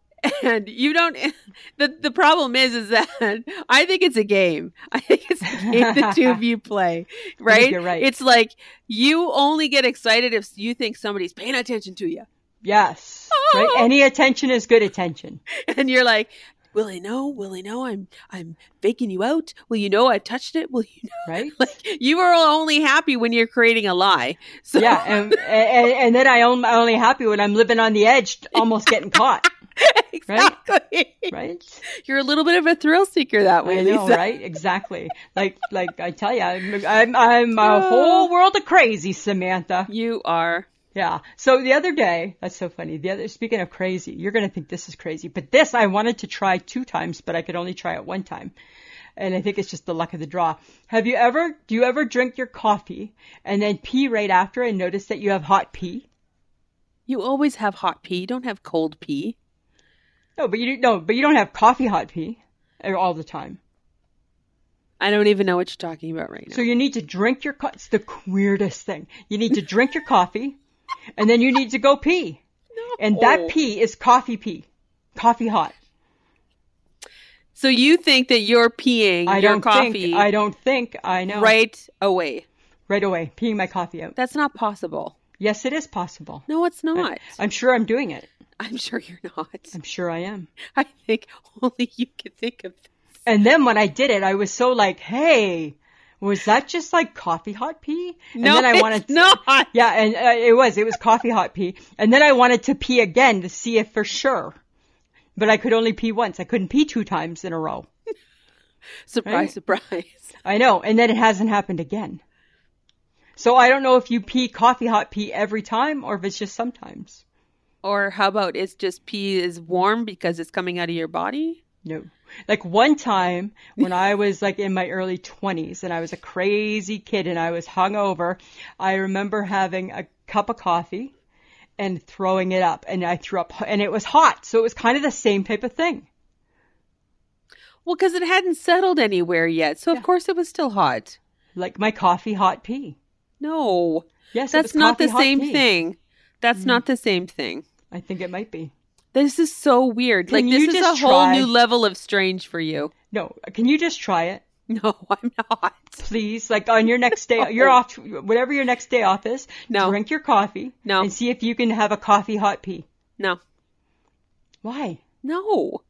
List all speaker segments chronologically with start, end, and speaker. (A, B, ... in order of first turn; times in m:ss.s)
0:00.2-0:12.3 A
0:05.5-0:06.4 B
0:07.5-0:08.1 B
0:12.6-0:15.4 B
0:13.3-0:13.9 A
0:15.5-0:25.4 A
0:21.2-0:21.6 B
0:24.8-0:29.4 B
0:29.8-0:31.3 A
0:30.3-0:30.6 B
0:31.3-0:31.8 B
0:31.9-0:34.2 A
0:33.6-0:39.9 B
0:37.6-0:38.3 A
0:39.9-0:40.7 A
0:40.9-0:48.5 B
0:49.2-0:56.1 B
0:57.1-0:59.3 A
1:00.4-1:03.6 B
1:05.0-1:06.6 A
1:06.5-1:10.6 B
1:11.2-1:12.4 B
1:12.8-1:13.5 A
1:13.0-1:15.7 B
1:17.5-1:20.3 A
1:19.2-1:21.5 B
1:21.3-1:22.4 A
1:22.9-1:24.2 B
1:24.2-1:25.1 A
1:25.4-1:28.3 B
1:26.5-1:27.3 A
1:28.6-1:29.7 A
1:29.7-1:30.5 B
1:30.7-1:32.8 A
1:33.2-1:44.6 B
1:38.4-1:39.7 A
1:45.4-1:47.9 B
1:49.1-1:50.4 A
1:49.2-1:49.5 B
1:50.4-1:52.2 B
1:53.4-1:57.2 B
1:57.8-2:01.6 A
2:01.8-2:11.1 B
2:11.8-2:16.0 B
2:17.8-2:21.2 A
2:21.5-2:23.0 B
2:23.4-2:27.6 A
2:24.3-2:25.6 B
2:26.6-2:26.8 B
2:27.9-2:28.7 B
2:29.1-2:32.9 A
2:30.3-2:31.5 B
2:33.1-2:34.4 B
2:34.7-2:36.0 A
2:36.0-2:42.8 B
2:37.4-2:37.8 A
2:39.7-2:40.0 A
2:40.8-2:41.1 A
2:44.6-2:45.0 B
2:45.2-2:45.8 A